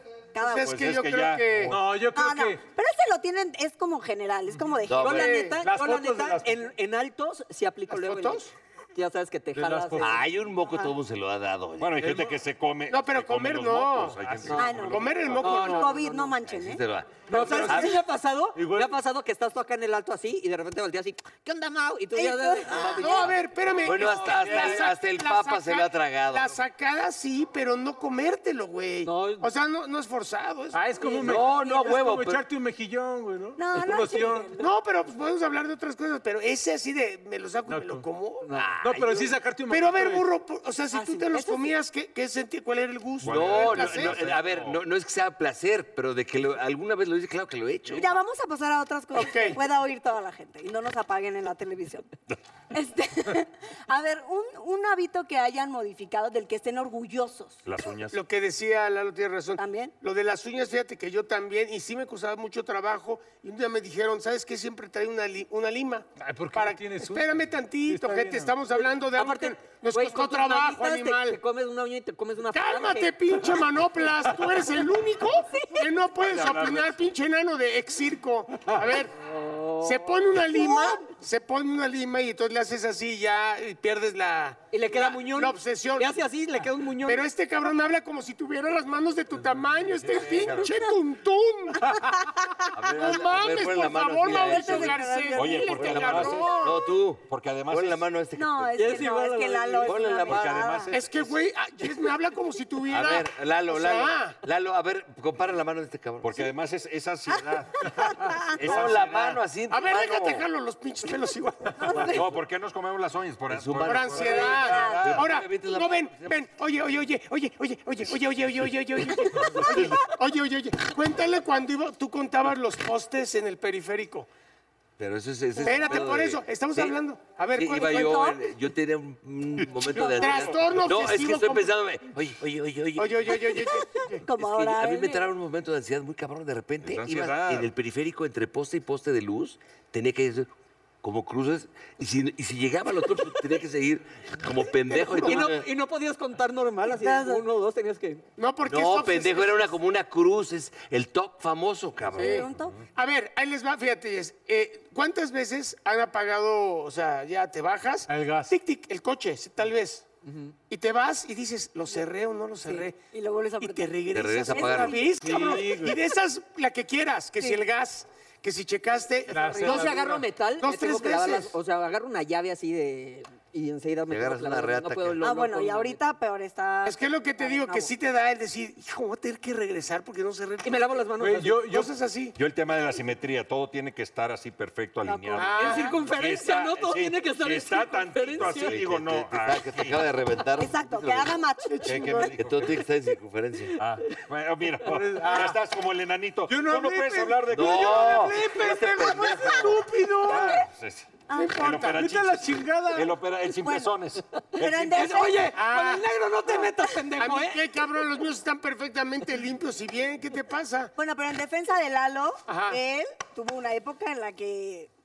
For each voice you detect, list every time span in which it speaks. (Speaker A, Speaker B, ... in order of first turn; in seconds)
Speaker A: 0.3-0.7, 2.1-5.5, 14.6-16.8, 22.1-23.3, 31.0-31.6, 33.6-34.7, 40.9-41.7, 47.9-52.1, 52.7-57.6, 59.6-59.9, 80.5-81.0, 91.8-92.4, 94.3-96.7, 98.3-100.9, 107.8-108.5, 111.8-112.2, 114.2-115.1, 119.4-119.7, 125.5-126.1, 127.7-128.4, 130.0-130.7, 133.5-135.2, 146.9-147.4, 152.1-152.8, 162.6-165.1, 175.2-177.9, 185.0-185.8, 190.6-192.3, 200.3-200.6, 201.3-201.6, 203.6-203.9, 204.6-205.4, 210.9-214.9
Speaker B: 0.4-1.8, 5.1-5.6, 7.9-8.5, 12.9-14.2, 14.8-16.0, 17.3-18.0, 23.0-30.9, 34.6-44.2, 49.1-49.6, 58.1-71.4, 72.5-79.1, 79.8-86.2, 87.0-92.2, 92.9-96.9, 100.9-104.4, 109.7-112.2, 113.8-124.3, 125.6-128.3, 129.9-131.7, 133.0-134.2, 144.9-145.5, 148.4-149.7, 152.1-160.0, 160.7-162.9, 163.6-171.5, 176.8-182.4, 185.3-186.0, 191.7-192.5, 201.3-202.1, 205.5-206.6, 207.2-210.9, 212.5-212.8
Speaker C: 0.5-1.8, 11.8-15.4, 24.1-24.4, 43.2-44.8, 57.6-58.2, 76.2-77.0, 89.9-90.7, 95.3-98.1, 100.2-101.3, 106.2-109.4, 112.0-115.3, 119.6-120.2, 136.8-137.7, 182.3-190.0, 191.8-192.9, 193.8-198.3, 200.3-205.2
Speaker D: 1.7-2.6, 5.6-6.6, 9.5-10.2, 12.0-12.3, 18.5-18.9, 30.7-34.5, 37.7-38.0, 38.8-40.3, 66.2-68.5, 78.7-79.0, 158.1-158.5, 165.2-166.0, 169.3-170.3, 181.2-181.9, 194.8-195.7, 196.4-200.7, 201.9-203.1
Speaker E: 4.9-5.4, 10.0-12.2, 16.4-18.0, 23.8-26.6, 31.2-32.4, 38.5-38.9, 43.2-48.1, 90.2-90.6, 92.7-95.0, 95.8-99.0, 99.8-100.8, 102.9-106.5, 108.6-110.5, 113.5-116.4, 125.0-127.0, 127.5-133.4, 134.3-140.5, 141.0-145.7, 148.6-152.5, 164.1-165.2, 174.1-175.2, 188.3-191.3, 192.4-193.8, 197.5-199.9
Speaker F: 5.0-10.2, 14.4-16.3, 17.3-23.4, 29.0-29.5, 38.4-38.8, 69.1-73.6, 79.2-80.2, 84.7-87.2, 98.8-100.1, 145.2-148.2, 160.2-160.5, 169.5-176.0, 180.6-181.6, 185.6-188.8, 204.9-207.7